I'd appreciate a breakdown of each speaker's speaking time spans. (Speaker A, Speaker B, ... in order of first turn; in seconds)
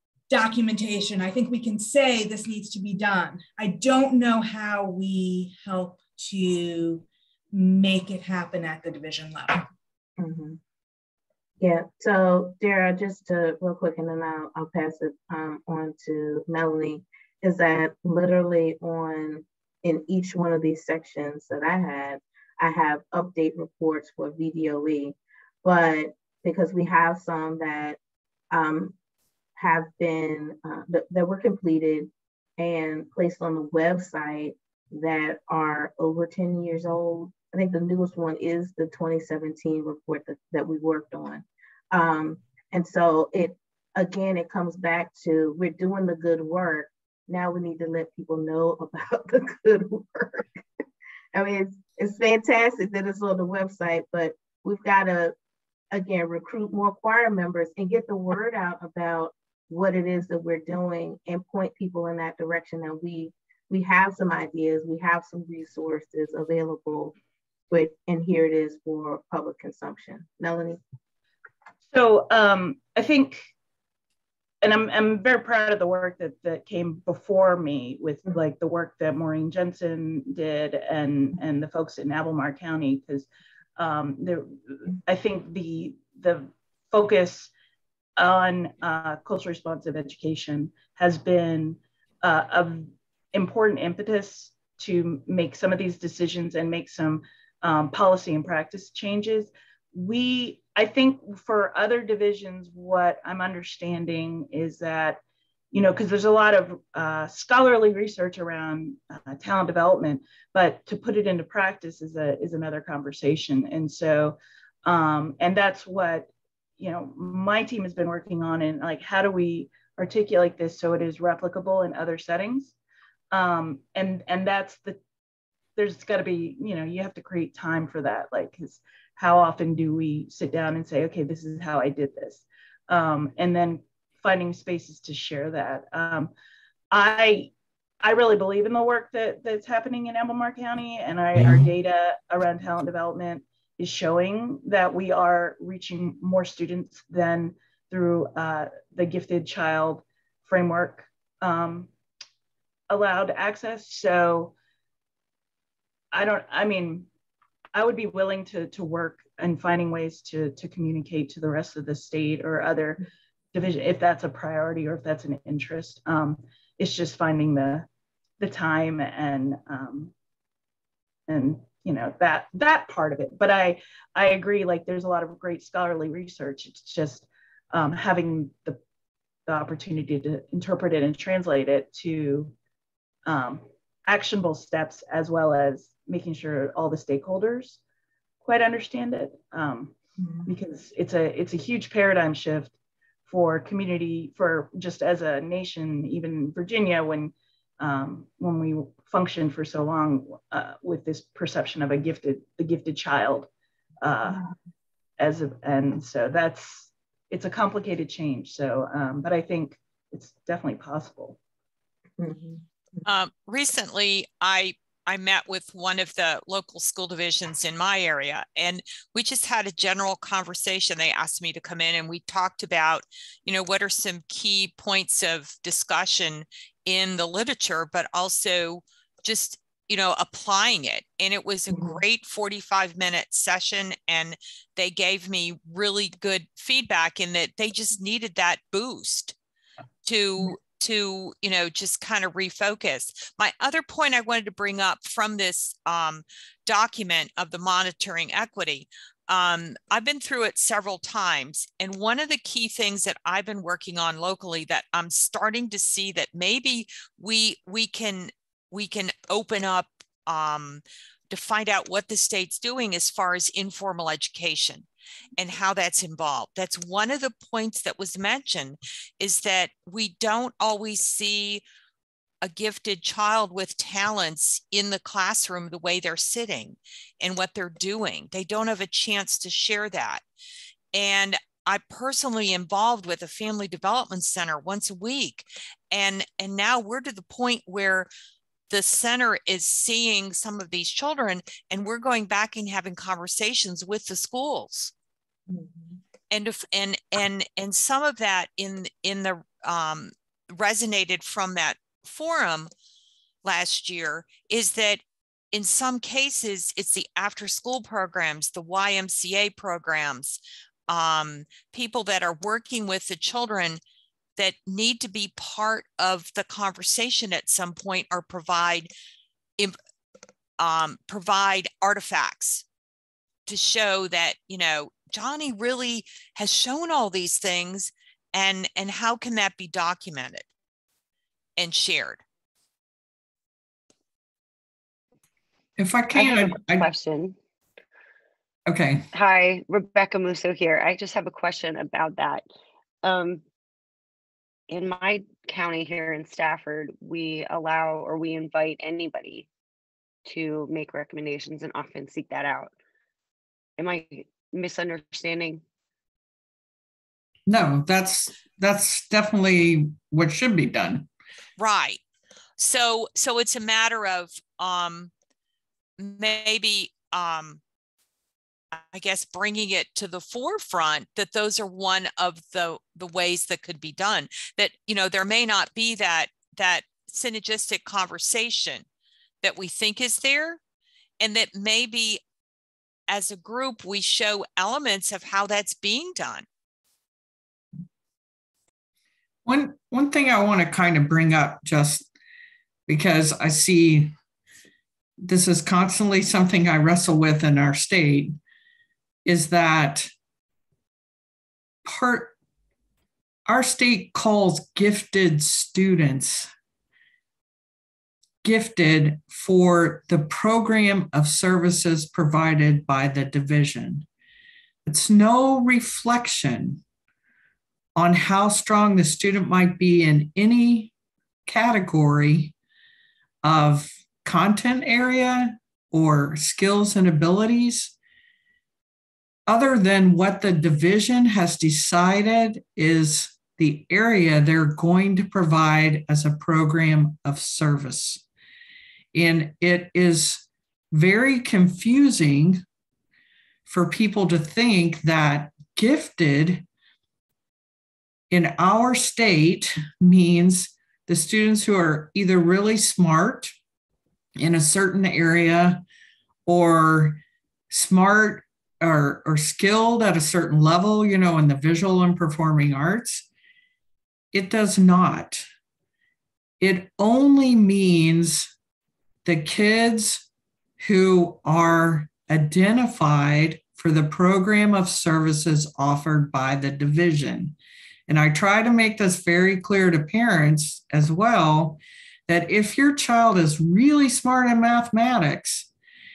Speaker A: 0.3-9.7
Speaker B: 10.2-10.6, 11.6-28.0, 28.5-28.9, 29.6-50.6, 51.3-55.4, 55.9-67.2, 67.7-70.8, 190.2-190.5, 212.2-212.6, 231.7-232.0, 295.5-295.9
Speaker C: 71.9-73.5, 74.6-83.3, 83.8-87.5, 88.2-105.2, 105.7-122.8, 123.3-125.0, 125.8-136.3, 136.9-151.9, 152.9-154.5, 156.1-157.1, 157.7-167.9, 168.4-170.1, 171.3-178.8, 179.5-182.5, 183.3-187.8, 188.4-192.7, 193.3-203.5, 204.0-204.5, 205.2-211.4
Speaker D: 213.1-239.3, 240.1-271.6, 272.4-280.2, 280.9-288.1, 288.7-294.9, 296.3-302.7, 303.4-313.8, 314.4-318.9, 320.6-322.6, 323.5-330.5, 331.6-332.2, 361.6-362.0, 362.6-365.1, 366.0-367.6, 368.8-378.9, 379.4-380.6, 381.2-382.2, 383.1-386.5
Speaker E: 335.8-336.9, 338.7-339.1, 357.5-361.1, 389.5-392.1, 392.9-394.1, 395.2-398.4, 399.2-400.1, 401.9-402.3, 403.5-406.5, 408.4-414.1, 414.9-416.8, 418.0-420.9, 421.5-422.5, 423.4-427.9, 429.5-438.2, 439.1-442.6, 443.7-446.6, 448.3-453.6, 454.4-455.8, 456.5-457.2, 457.7-463.3, 464.3-465.4, 466.6-468.5, 469.3-470.2, 470.8-477.6, 478.1-485.7
Speaker F: 336.1-337.4, 339.1-342.5, 343.0-343.4, 344.7-349.5, 350.3-352.7, 353.8-355.6